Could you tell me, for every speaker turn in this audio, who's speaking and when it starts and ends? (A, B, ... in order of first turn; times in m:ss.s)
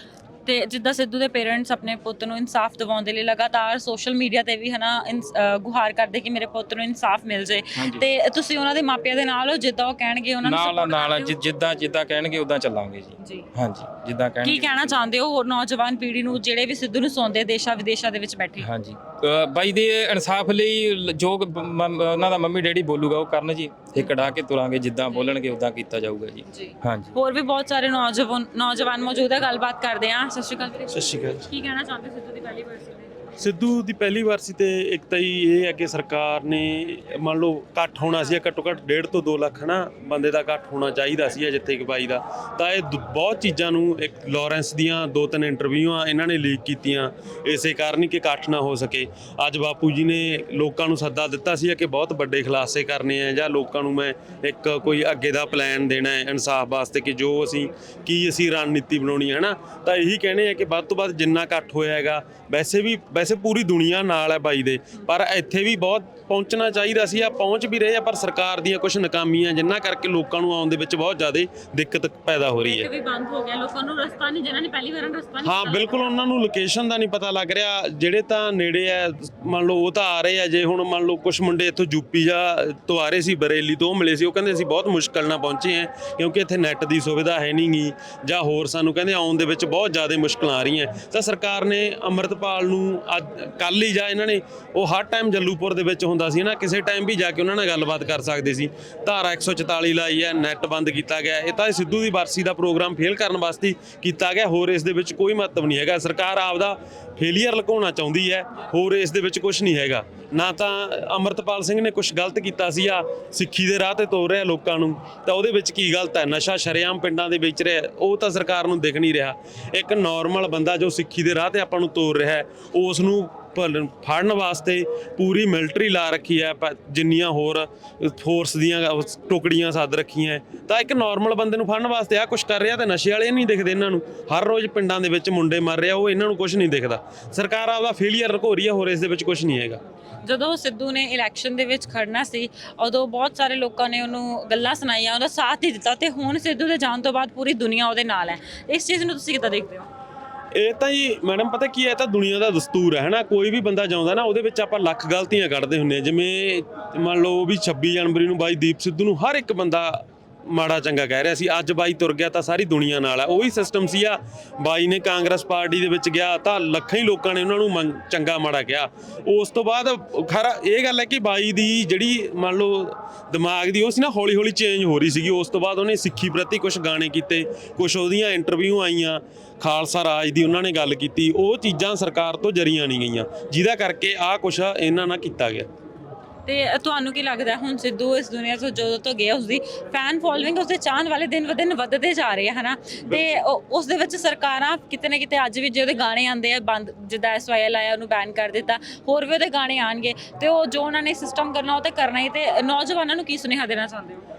0:00.4-0:11.4 A
0:07.8-0:08.0 B
0:10.4-0:15.0 B
0:13.2-0:13.5 A
0:14.4-0:18.7 A
0:18.6-0:27.1 B
0:26.5-0:33.3 A
0:30.9-0:31.5 C
0:33.4-1:12.9 C
1:12.6-1:16.1 A
1:15.4-2:19.8 C
2:20.2-2:29.9 A
2:30.5-3:05.7 C
3:06.4-3:24.2 A